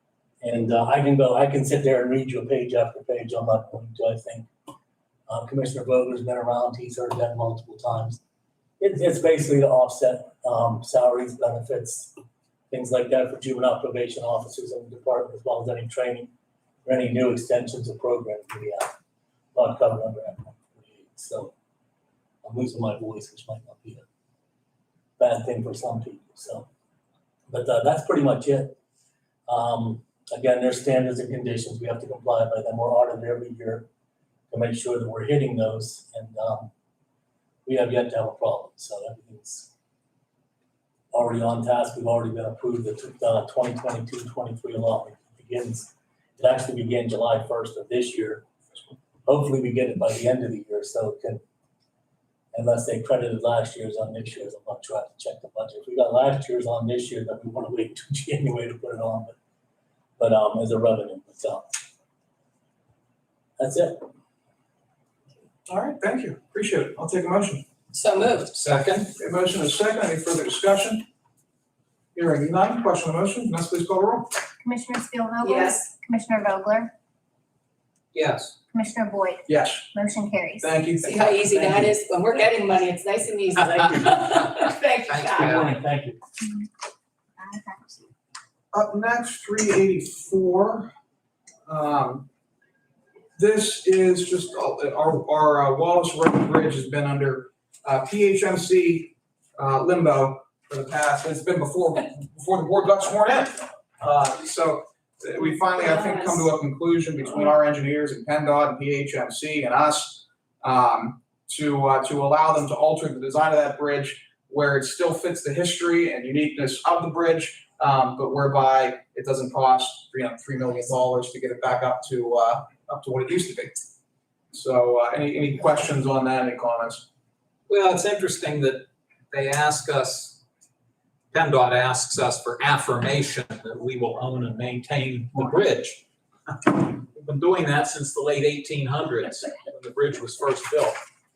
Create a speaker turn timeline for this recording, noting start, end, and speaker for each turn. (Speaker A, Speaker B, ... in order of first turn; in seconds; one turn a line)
Speaker A: 0.4-4.5
Speaker A: 5.3-8.2
Speaker A: 8.8-12.1
Speaker A: 12.7-16.3
Speaker A: 16.9-18.9
Speaker A: 19.5-21.5
Speaker A: 22.4-24.1
Speaker A: 25.2-26.7
Speaker A: 27.5-28.8
Speaker A: 29.5-33.9
Speaker A: 34.5-36.7
Speaker A: 37.7-39.7
Speaker A: 41.1-48.5
Speaker A: 49.2-51.4
Speaker A: 52.5-59.4
Speaker A: 60.2-61.7
Speaker A: 63.6-64.1
Speaker B: 65.7-67.7
Speaker C: 67.9-68.6
Speaker D: 68.5-69.1
Speaker B: 69.2-71.0
Speaker B: 72.2-74.3
Speaker E: 74.6-76.9
Speaker C: 75.4-75.9
Speaker D: 78.1-78.5
Speaker E: 78.7-80.7
Speaker B: 79.5-79.9
Speaker B: 80.6-81.9
Speaker C: 81.0-85.7
Speaker A: 83.6-84.7
Speaker D: 85.1-85.7
Speaker A: 85.4-86.2
Speaker E: 87.4-88.0
Speaker B: 88.7-90.9
Speaker B: 91.7-92.3
Speaker B: 93.4-123.8
Speaker C: 105.8-106.4
Speaker B: 124.5-127.1
Speaker D: 127.7-130.4
Speaker D: 131.3-141.0